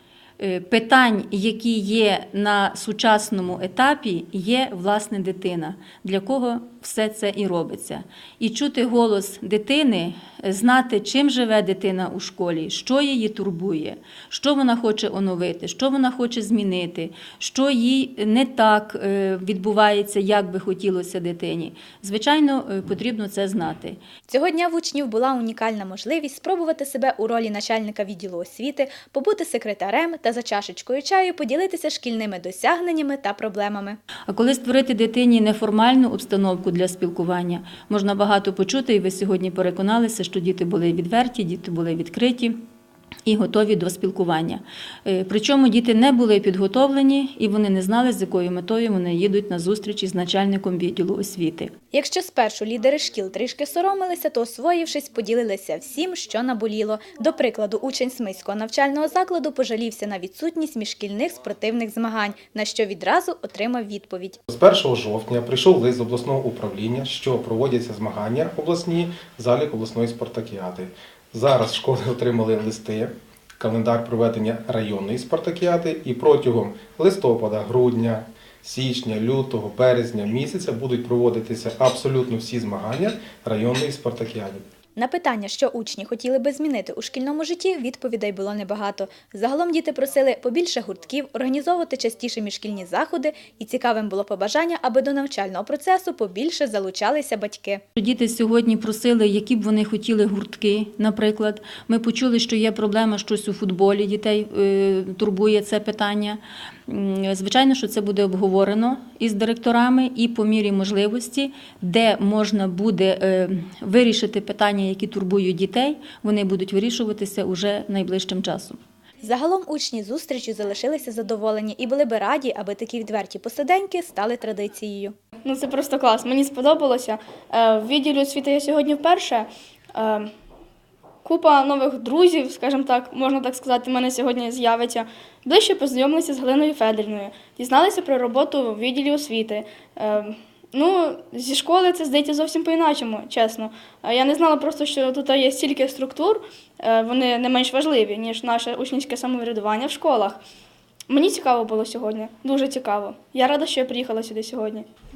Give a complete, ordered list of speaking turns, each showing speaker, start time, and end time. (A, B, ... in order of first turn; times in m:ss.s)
0:00.4-0:24.0 A
0:24.3-0:34.0 B
0:34.3-0:42.5 A
0:43.2-0:51.7 A
0:51.9-1:04.4 B
1:04.5-1:24.6 C
1:25.0-1:37.8 B
1:38.0-1:58.8 A
1:59.2-2:05.1 B
2:05.4-2:10.3 D
2:11.2-2:30.4 D
2:31.1-2:34.9 D